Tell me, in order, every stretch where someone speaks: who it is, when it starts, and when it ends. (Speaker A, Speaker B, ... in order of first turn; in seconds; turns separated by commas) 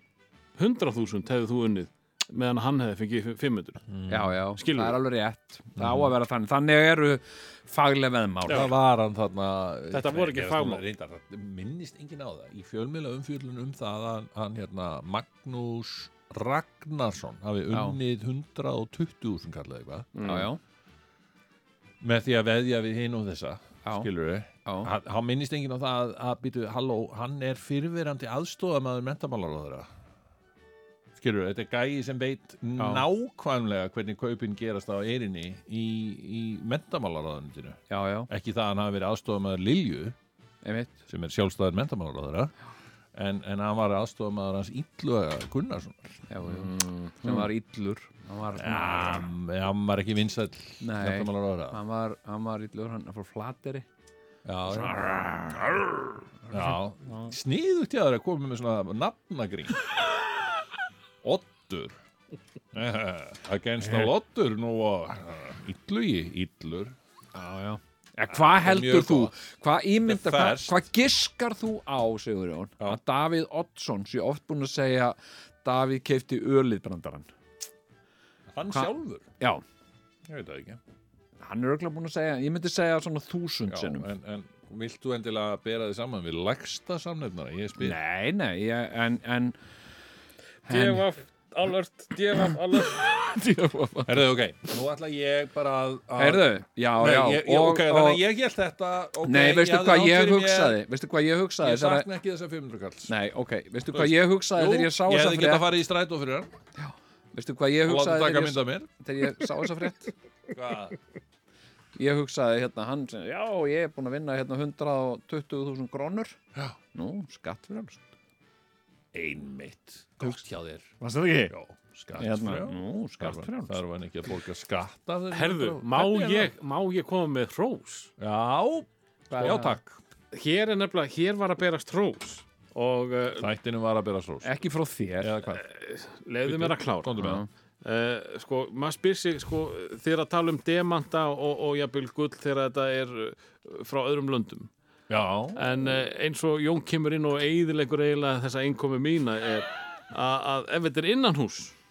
Speaker A: 0.6-3.8, Speaker B: 3.9-4.3, Speaker C: 4.1-8.7, Speaker A: 4.6-5.0, Speaker B: 5.8-6.1, Speaker B: 8.4-20.2, Speaker A: 8.5-8.7, Speaker A: 9.9-10.8, Speaker C: 17.7-18.0, Speaker A: 20.1-20.5, Speaker C: 20.2-20.6, Speaker B: 22.0-29.9, Speaker C: 24.6-24.9, Speaker B: 31.2-40.1, Speaker C: 32.8-33.0, Speaker C: 37.9-38.3, Speaker C: 40.6-41.0, Speaker B: 41.1-42.5, Speaker B: 43.1-46.1, Speaker C: 46.3-49.3, Speaker A: 46.5-47.1, Speaker B: 48.5-51.8, Speaker C: 50.8-53.8, Speaker B: 54.4-59.8, Speaker C: 54.7-55.9, Speaker C: 56.5-57.3, Speaker B: 61.2-62.0, Speaker B: 62.7-67.0, Speaker C: 67.3-77.3, Speaker B: 68.3-69.3, Speaker B: 70.0-70.9, Speaker B: 78.5-79.3, Speaker C: 78.7-79.6, Speaker B: 80.2-80.8, Speaker C: 81.4-84.1, Speaker B: 83.7-88.0, Speaker C: 87.8-89.6, Speaker C: 90.7-91.0, Speaker A: 90.7-93.1, Speaker C: 93.0-94.3, Speaker B: 94.0-100.8, Speaker C: 96.2-98.2, Speaker C: 99.2-102.1, Speaker B: 101.6-103.1, Speaker C: 103.1-105.7, Speaker B: 103.9-106.5, Speaker C: 106.8-110.1, Speaker B: 107.8-108.9, Speaker B: 110.5-111.0, Speaker C: 112.0-116.4, Speaker C: 116.9-118.1, Speaker B: 119.1-120.9, Speaker C: 121.0-121.5, Speaker B: 121.5-126.5, Speaker C: 122.2-123.8, Speaker A: 125.3-128.1, Speaker B: 128.2-130.0, Speaker C: 129.3-129.8, Speaker A: 130.3-133.5, Speaker B: 133.4-134.6, Speaker C: 134.4-135.3, Speaker B: 135.2-135.6, Speaker A: 135.6-137.2, Speaker B: 136.4-137.4, Speaker C: 137.2-137.5, Speaker A: 137.8-144.7, Speaker B: 145.1-146.0, Speaker A: 145.6-151.8